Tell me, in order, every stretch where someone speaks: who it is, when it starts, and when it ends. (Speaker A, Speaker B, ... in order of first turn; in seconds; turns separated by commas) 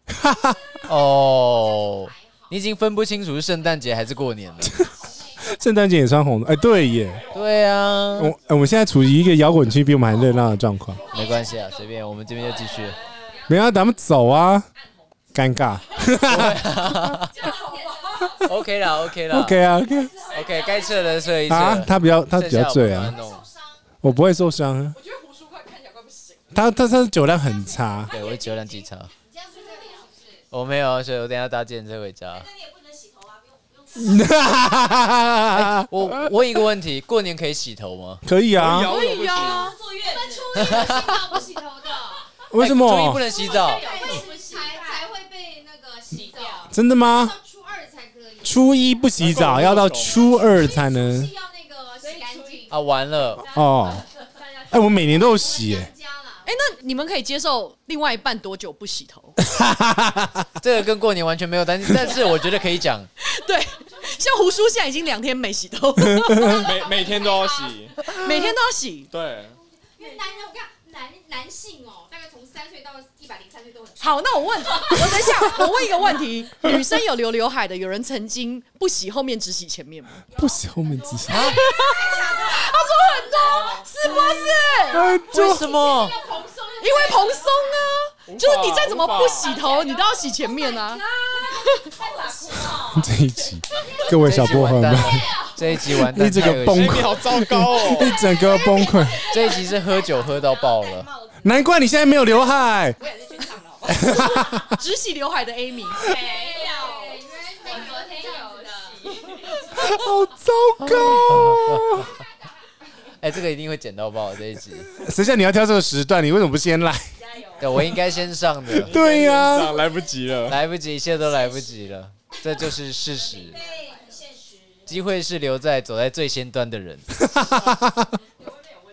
Speaker A: 0.1-0.6, Speaker B: 0.8-4.8, Speaker C: 1.3-2.2, Speaker A: 5.4-7.2, Speaker B: 7.3-8.3, Speaker A: 8.2-11.0, Speaker B: 11.1-13.0, Speaker A: 13.5-14.7, Speaker A: 15.3-17.2, Speaker B: 16.2-17.4, Speaker D: 17.4-18.3, Speaker B: 18.3-19.6, Speaker A: 19.3-20.2, Speaker B: 20.3-23.4, Speaker D: 20.5-20.9, Speaker A: 21.5-23.1, Speaker A: 24.0-25.0, Speaker A: 26.5-28.1, Speaker B: 28.1-29.1, Speaker D: 29.3-30.2, Speaker B: 30.5-32.5, Speaker D: 32.4-34.4, Speaker A: 33.9-36.1, Speaker B: 35.5-38.2, Speaker A: 38.2-39.0, Speaker E: 38.5-39.8, Speaker F: 38.7-39.7, Speaker D: 39.0-41.3, Speaker C: 39.2-42.2, Speaker B: 40.5-41.1, Speaker A: 42.5-43.2, Speaker B: 42.6-43.8, Speaker C: 43.3-48.7, Speaker D: 43.3-45.0, Speaker D: 46.1-46.7, Speaker A: 46.7-47.3, Speaker A: 48.4-51.3, Speaker E: 49.2-50.2, Speaker C: 50.3-52.7, Speaker D: 52.0-52.7, Speaker B: 52.7-53.4, Speaker A: 53.4-54.0, Speaker C: 53.8-56.4, Speaker A: 54.7-55.9, Speaker F: 56.4-59.4, Speaker A: 59.4-60.5, Speaker B: 60.6-63.1, Speaker F: 63.2-66.8, Speaker A: 66.1-66.6, Speaker E: 66.5-68.1, Speaker C: 66.8-67.8, Speaker F: 68.0-69.1, Speaker E: 69.1-69.6, Speaker C: 70.0-75.5, Speaker F: 74.0-80.2, Speaker A: 80.3-81.6, Speaker B: 81.3-81.6, Speaker F: 81.4-85.1, Speaker C: 81.9-83.6, Speaker D: 81.9-82.7, Speaker A: 84.9-85.7, Speaker B: 85.3-86.2, Speaker C: 85.8-87.5, Speaker D: 86.2-87.1, Speaker F: 86.8-92.0, Speaker E: 88.2-89.6, Speaker C: 90.4-92.9, Speaker D: 92.0-93.0, Speaker A: 92.7-99.2, Speaker B: 94.1-97.1, Speaker E: 96.7-98.2, Speaker C: 98.4-99.7, Speaker B: 99.2-101.1, Speaker D: 100.3-101.3, Speaker A: 101.4-103.0, Speaker D: 103.0-104.0, Speaker A: 103.8-104.8, Speaker F: 103.9-106.1, Speaker C: 106.0-109.5, Speaker D: 106.1-109.4, Speaker A: 109.7-112.1, Speaker B: 110.8-112.0, Speaker B: 113.2-114.9, Speaker A: 114.9-117.1, Speaker B: 117.6-118.9, Speaker A: 118.8-119.8, Speaker E: 118.8-120.6, Speaker B: 120.5-123.6, Speaker D: 123.3-124.8, Speaker B: 124.9-127.2, Speaker A: 127.2-128.1